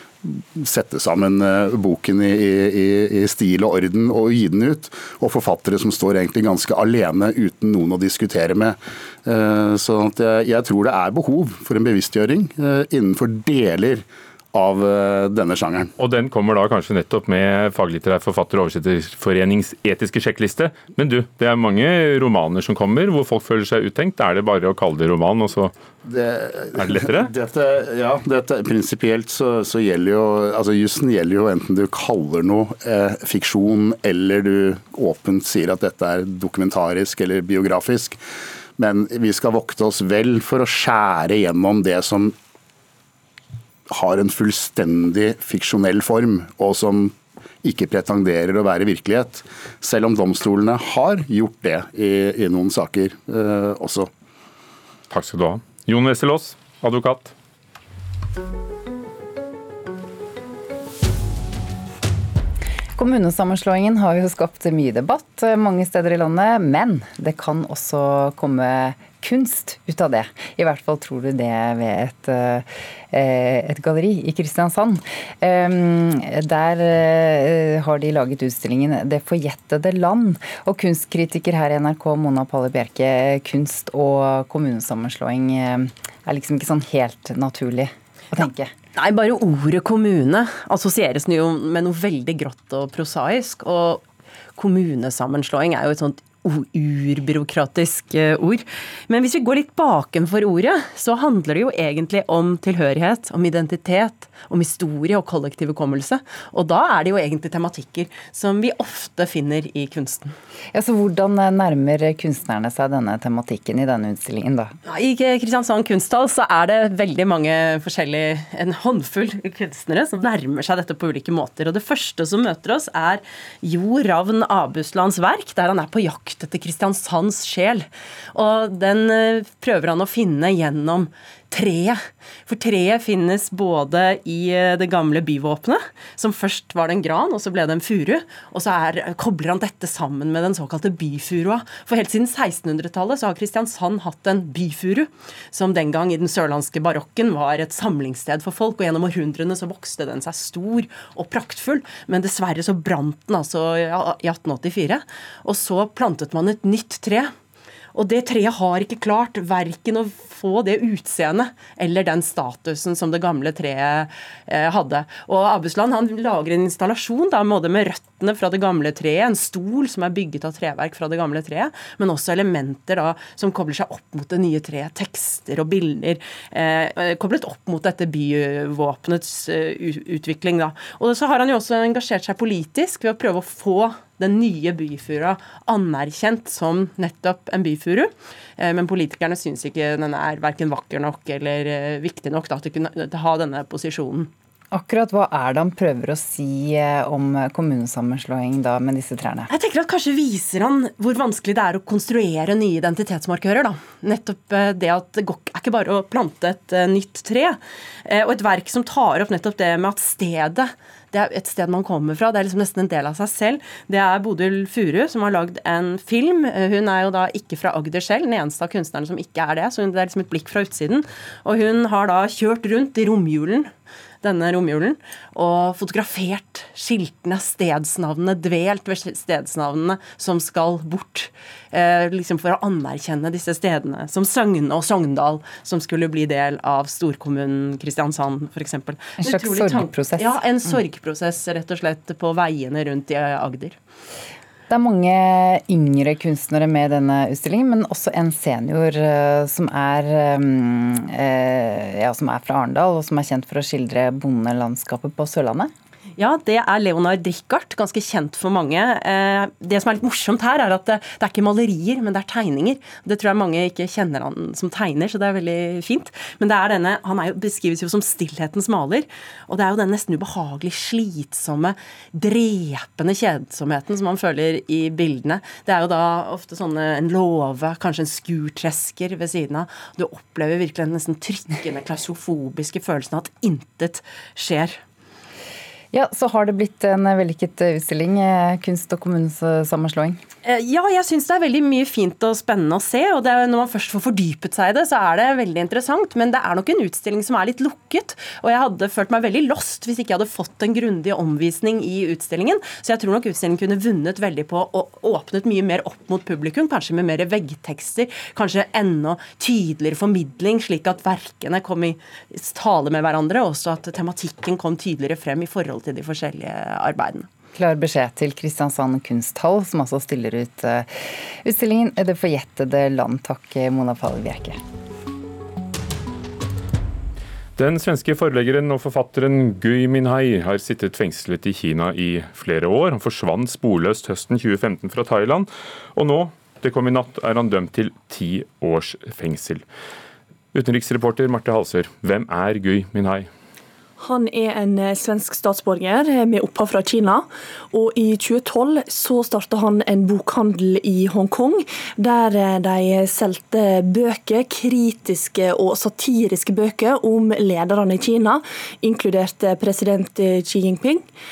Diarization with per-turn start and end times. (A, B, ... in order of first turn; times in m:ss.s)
0:00.2-0:15.9 A
0:16.0-0:25.7 B
0:26.0-0:38.2 A
0:26.8-0:27.3 B
0:38.8-0:42.3 A
0:43.9-0:47.1 A
0:47.6-0:54.1 A
0:55.1-0:57.3 B
1:03.0-1:28.7 C
1:29.0-1:34.0 D
1:34.6-1:50.3 D
1:50.7-1:54.7 C
1:54.8-2:37.3 D
2:37.9-3:14.3 D
3:14.7-3:19.5 C
3:19.5-3:43.7 D
3:44.2-4:03.8 D
3:59.2-4:00.8 C
4:04.7-4:15.7 C
4:16.2-4:44.8 D
4:45.9-4:50.2 C
4:50.4-5:17.3 D
5:17.6-5:20.9 C
5:21.4-5:24.6 C
5:27.6-5:39.6 B
5:40.5-5:43.3 B
5:44.0-6:01.0 E